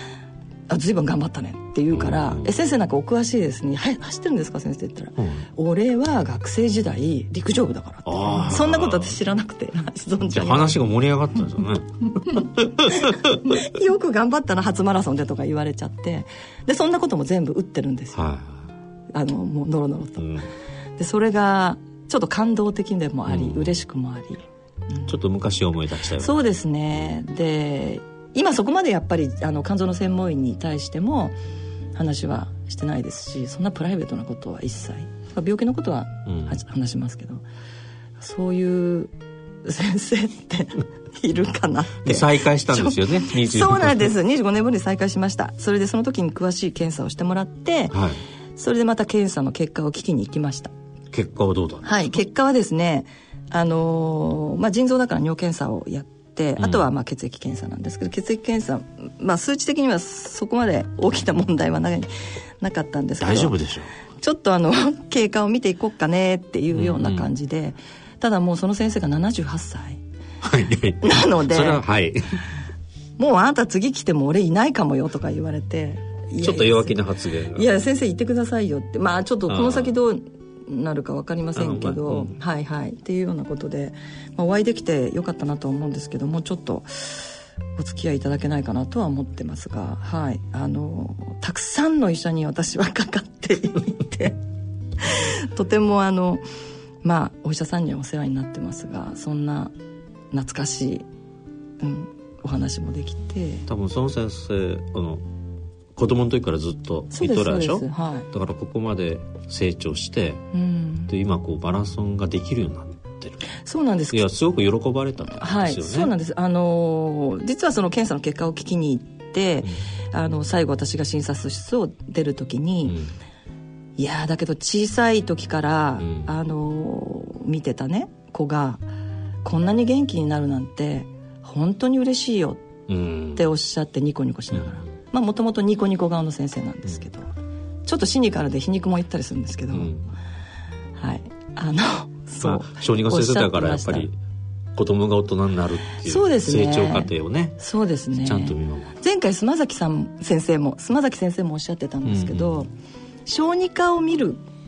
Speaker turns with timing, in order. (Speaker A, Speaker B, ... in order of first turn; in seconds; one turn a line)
Speaker A: 0.7-10.8
Speaker B: 1.9-2.5
Speaker B: 5.2-5.5
Speaker B: 8.1-9.2
Speaker B: 10.3-13.6
Speaker A: 13.5-18.2
Speaker B: 18.1-18.7
Speaker A: 19.1-20.2
Speaker B: 20.2-20.5
Speaker A: 21.0-25.1
Speaker B: 23.3-23.7
Speaker B: 25.1-26.4
Speaker A: 26.2-31.4
Speaker A: 31.9-37.4
Speaker B: 36.3-36.6
Speaker A: 38.2-39.1
Speaker A: 39.6-48.0
Speaker B: 42.0-44.1
Speaker B: 47.9-48.2
Speaker A: 48.6-50.7
Speaker B: 51.1-52.2
Speaker A: 51.9-62.1
Speaker B: 56.6-56.9
Speaker A: 62.6-63.5
Speaker B: 63.2-63.9
Speaker A: 64.2-70.0
Speaker B: 66.8-67.3
Speaker B: 70.4-72.4
Speaker A: 71.0-71.8
Speaker A: 73.2-77.0
Speaker B: 76.4-77.7
Speaker A: 77.5-94.4
Speaker B: 79.5-79.9
Speaker B: 81.6-82.3
Speaker A: 95.1-96.4
Speaker A: 97.0-99.7
Speaker A: 100.3-101.0
Speaker A: 101.8-103.7
Speaker B: 103.7-105.2
Speaker B: 106.0-110.5
Speaker A: 107.1-108.3
Speaker A: 110.5-111.1
Speaker B: 111.1-113.4
Speaker A: 113.7-114.2
Speaker B: 114.1-116.1
Speaker A: 115.4-123.0
Speaker B: 122.8-123.1
Speaker A: 124.0-128.8
Speaker B: 126.0-126.3
Speaker A: 129.4-132.6
Speaker B: 132.9-133.4
Speaker A: 133.3-137.3
Speaker B: 134.5-134.8
Speaker A: 137.9-139.9
Speaker B: 139.7-140.1
Speaker A: 141.0-144.1
Speaker B: 142.4-144.2
Speaker B: 144.8-147.6
Speaker A: 146.1-152.7
Speaker B: 148.2-148.9
Speaker B: 152.1-152.6
Speaker A: 153.3-154.4